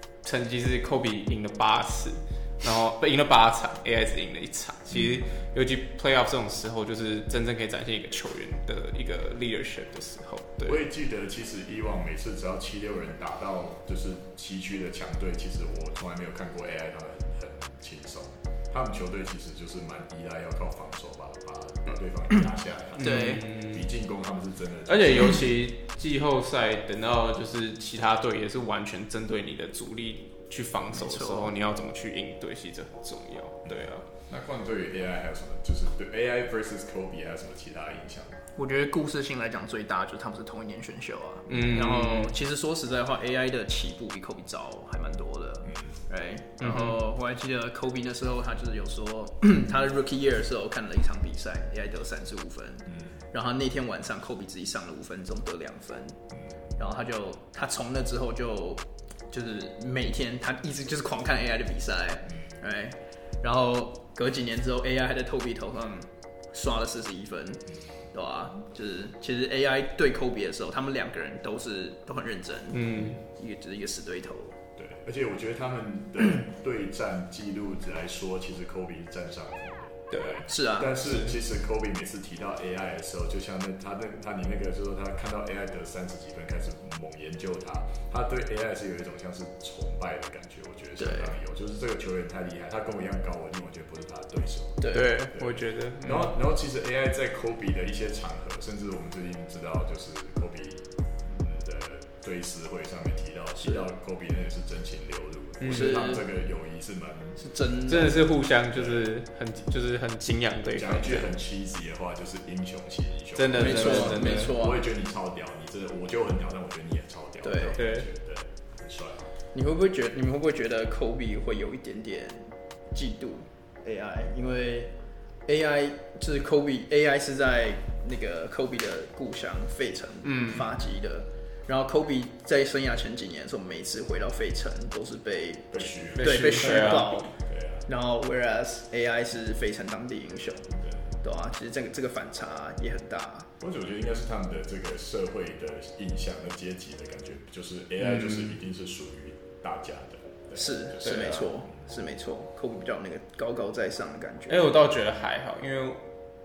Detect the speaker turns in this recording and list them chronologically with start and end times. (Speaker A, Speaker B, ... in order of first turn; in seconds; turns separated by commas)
Speaker A: 0.2-10.8, Speaker B: 4.9-5.3, Speaker B: 10.6-25.5, Speaker A: 23.0-23.9, Speaker C: 23.0-23.4, Speaker A: 24.9-34.0, Speaker C: 30.9-31.5, Speaker B: 33.6-38.4, Speaker C: 38.5-56.2, Speaker A: 41.5-42.3, Speaker B: 45.6-46.0, Speaker A: 46.6-47.0, Speaker B: 52.9-53.2, Speaker C: 56.8-74.6, Speaker A: 72.7-73.2, Speaker B: 74.8-107.4, Speaker A: 80.1-80.4, Speaker C: 80.5-81.0, Speaker A: 81.0-81.3, Speaker C: 91.0-91.3, Speaker C: 94.8-95.2, Speaker A: 94.9-96.3, Speaker A: 105.6-106.1, Speaker C: 105.6-106.2, Speaker C: 107.4-108.2, Speaker A: 107.9-111.3, Speaker B: 108.7-109.1, Speaker B: 110.7-119.2, Speaker A: 113.3-114.6, Speaker C: 113.5-114.8, Speaker C: 117.4-117.8, Speaker A: 117.7-118.0, Speaker C: 119.5-124.9, Speaker C: 125.5-137.3, Speaker A: 130.2-130.7, Speaker B: 135.7-137.8, Speaker A: 136.2-137.2, Speaker C: 137.9-143.5, Speaker B: 140.8-141.2, Speaker B: 143.6-151.7, Speaker A: 148.0-148.5, Speaker C: 150.6-154.7, Speaker A: 151.0-151.4, Speaker A: 154.5-156.0